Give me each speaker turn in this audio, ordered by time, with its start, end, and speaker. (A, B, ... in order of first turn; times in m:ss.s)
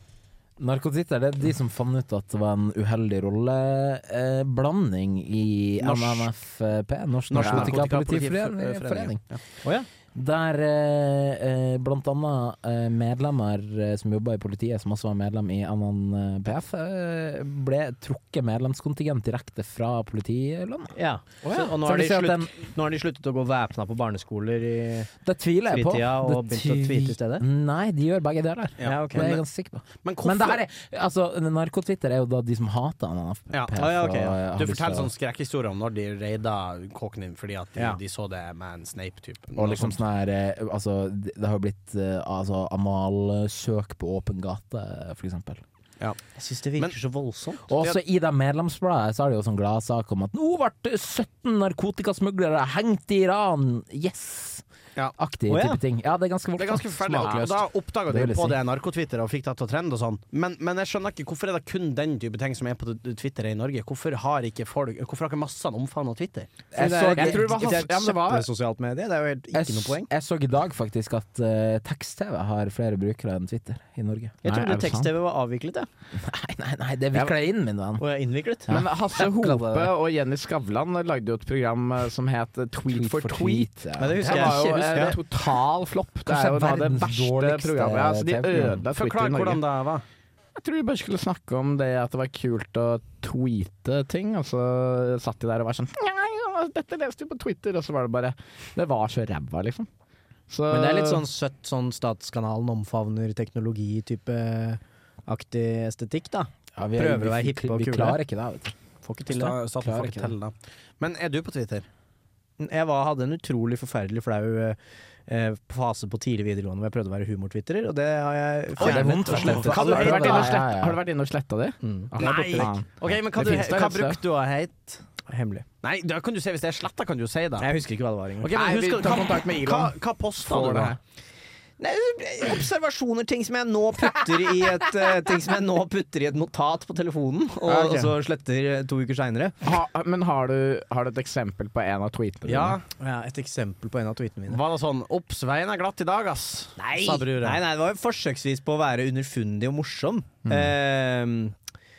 0:00.6-0:09.2 A
0:05.8-0:06.3 B
0:07.3-0:09.4 B
0:07.4-0:07.8 C
0:09.6-0:09.9 D
0:10.1-0:20.9 A
0:20.9-0:25.1 D
0:21.5-0:22.5 A
0:25.2-0:35.1 A
0:25.7-0:27.4 D
0:28.8-0:29.4 B
0:28.8-0:29.3 D
0:30.0-0:30.6 B
0:33.5-0:40.0 B
0:39.6-0:45.6 A
0:46.4-0:47.6 D
0:47.7-0:54.6 A
0:55.2-0:58.6 A
0:55.5-0:55.8 D
0:56.6-1:06.5 B
1:06.7-1:07.6 A
1:06.7-1:10.1 D
1:07.1-1:08.5 C
1:09.5-1:14.4 A
1:14.4-1:15.1 C
1:14.4-1:15.9 D
1:16.2-1:18.0 A
1:18.0-1:18.7 D
1:18.7-1:19.9 A
1:18.7-1:29.6 C
1:22.9-1:24.7 A
1:24.0-1:25.2 D
1:26.2-1:28.8 A
1:28.9-1:30.0 B
1:30.6-1:39.9 C
1:40.5-1:41.2 C
1:40.7-1:48.2 D
1:46.8-1:48.7 A
1:49.0-1:49.5 D
1:49.3-1:51.8 B
1:49.8-1:50.3 A
1:52.6-1:59.8 D
1:58.8-2:01.0 A
1:58.8-2:00.6 B
1:59.6-2:04.2 C
2:01.8-2:02.1 D
2:02.2-2:05.0 B
2:05.2-2:05.6 D
2:05.8-2:07.7 B
2:07.6-2:08.5 D
2:08.4-2:10.9 B
2:08.5-2:11.0 C
2:11.8-2:19.6 D
2:17.6-2:18.1 C
2:19.6-2:22.8 C
2:22.4-2:22.8 B
2:23.0-2:24.6 D
2:24.5-2:27.6 B
2:26.8-2:31.5 D
2:30.4-2:30.7 C